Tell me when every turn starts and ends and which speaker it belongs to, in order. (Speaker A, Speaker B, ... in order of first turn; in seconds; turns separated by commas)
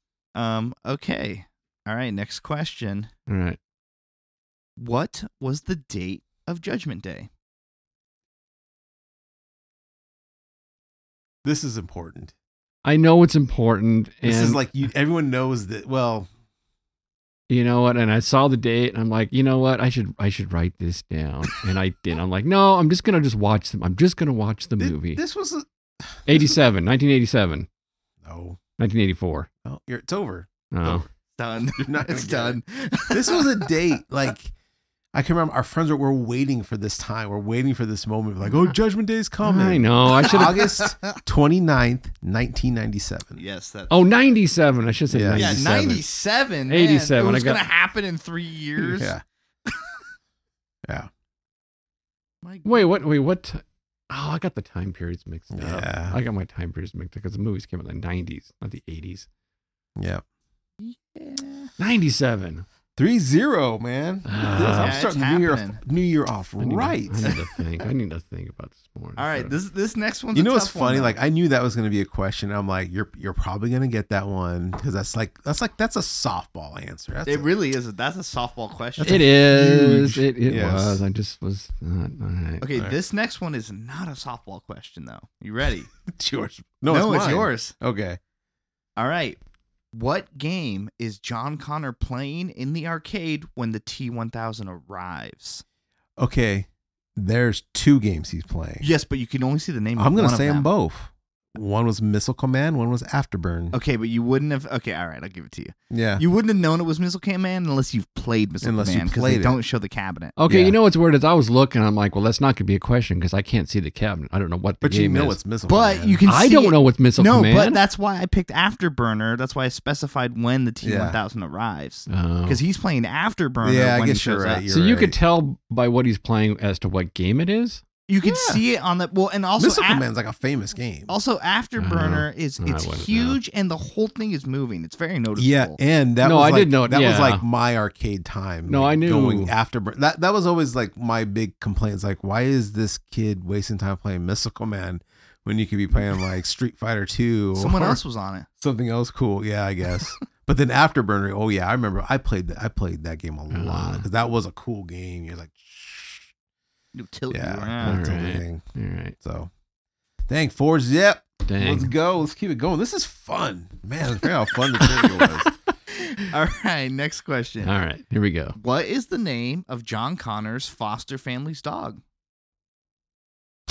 Speaker A: 0.3-3.1, Speaker B: 3.3-3.6, Speaker A: 4.8-7.3, Speaker C: 11.4-12.3, Speaker B: 12.8-14.6, Speaker C: 14.2-16.3, Speaker B: 17.5-25.2, Speaker C: 24.8-26.5, Speaker B: 26.3-27.7, Speaker C: 28.2-28.6, Speaker B: 28.8-29.5, Speaker C: 29.6-31.1, Speaker B: 30.7-31.0, Speaker A: 31.3-33.7, Speaker C: 31.8-34.5, Speaker C: 35.1-43.4, Speaker B: 39.4-40.7, Speaker A: 40.1-41.1, Speaker A: 43.4-44.4, Speaker B: 43.9-46.0, Speaker C: 45.1-46.0, Speaker A: 45.4-49.8, Speaker B: 46.7-47.6, Speaker C: 48.8-49.2, Speaker A: 52.4-52.9, Speaker B: 52.6-59.3, Speaker C: 55.5-56.2, Speaker C: 60.0-60.2, Speaker A: 60.8-61.7, Speaker B: 61.8-62.6, Speaker C: 63.0-67.4, Speaker B: 64.2-65.0, Speaker A: 64.6-65.8, Speaker B: 66.6-69.6, Speaker A: 69.2-71.2, Speaker C: 70.3-77.5, Speaker A: 77.2-79.3, Speaker C: 79.0-81.0, Speaker B: 79.0-82.7, Speaker A: 82.6-85.9, Speaker C: 86.1-88.2, Speaker A: 86.9-87.7, Speaker A: 89.0-89.4, Speaker A: 89.9-95.6, Speaker C: 96.2-98.9, Speaker A: 98.8-100.7, Speaker C: 100.0-103.8, Speaker A: 103.7-110.4, Speaker C: 105.9-106.2, Speaker C: 108.6-109.6, Speaker B: 110.4-115.4, Speaker C: 110.5-110.8, Speaker C: 114.8-116.2, Speaker A: 115.7-124.6, Speaker B: 116.2-117.8, Speaker C: 120.8-121.2, Speaker B: 122.1-122.6, Speaker C: 123.6-125.2, Speaker B: 124.7-127.8, Speaker A: 128.1-130.1, Speaker C: 128.2-128.6, Speaker C: 129.6-131.1, Speaker A: 131.1-135.8, Speaker B: 131.8-133.4, Speaker C: 135.3-148.0, Speaker B: 136.2-137.4, Speaker B: 138.7-139.5, Speaker A: 147.5-148.5, Speaker C: 148.6-156.3, Speaker B: 153.5-154.1, Speaker A: 156.9-158.0, Speaker C: 157.3-158.6, Speaker B: 157.8-159.2, Speaker C: 159.2-159.5, Speaker C: 160.3-165.5, Speaker B: 161.5-161.9, Speaker A: 165.9-167.7, Speaker B: 167.6-168.6, Speaker A: 168.6-172.0